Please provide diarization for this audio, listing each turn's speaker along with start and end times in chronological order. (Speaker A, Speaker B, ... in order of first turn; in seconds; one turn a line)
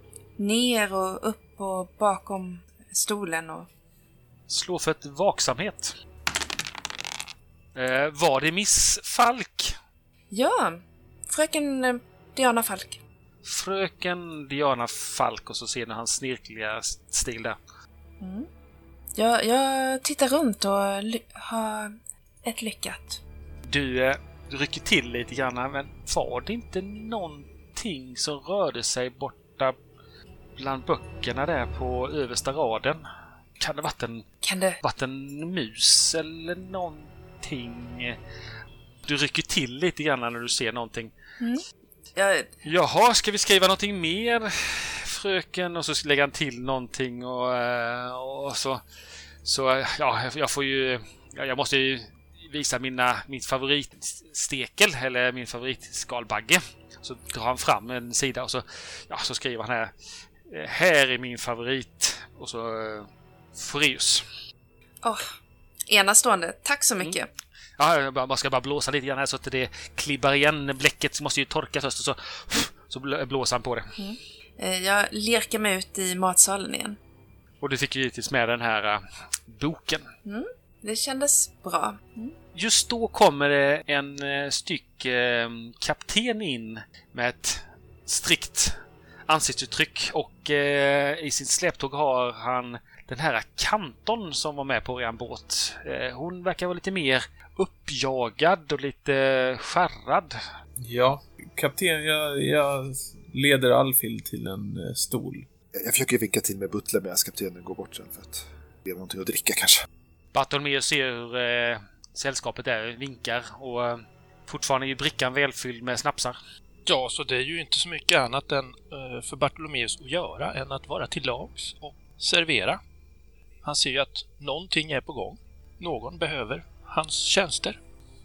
Speaker A: 0.4-3.7
Speaker B: 4.5-5.9
Speaker B: 7.7-9.8
Speaker A: 10.3-13.0
Speaker B: 13.4-17.6
Speaker A: 18.2-18.5
Speaker A: 19.1-23.2
Speaker B: 23.6-29.8
Speaker B: 30.6-33.0
Speaker B: 33.6-34.2
Speaker A: 34.4-34.8
Speaker B: 34.8-38.2
Speaker B: 39.0-41.1
Speaker A: 42.1-42.5
Speaker B: 42.6-48.8
Speaker B: 49.4-59.9
Speaker B: 60.5-64.2
Speaker A: 65.9-67.3
Speaker B: 67.8-73.9
Speaker A: 74.0-77.0
Speaker B: 77.6-80.1
Speaker A: 80.2-82.3
Speaker B: 82.5-88.8
Speaker B: 89.3-100.4
Speaker C: 100.8-105.5
Speaker D: 105.7-109.8
Speaker B: 110.3-116.4
Speaker E: 116.8-122.8
Speaker E: 123.6-127.8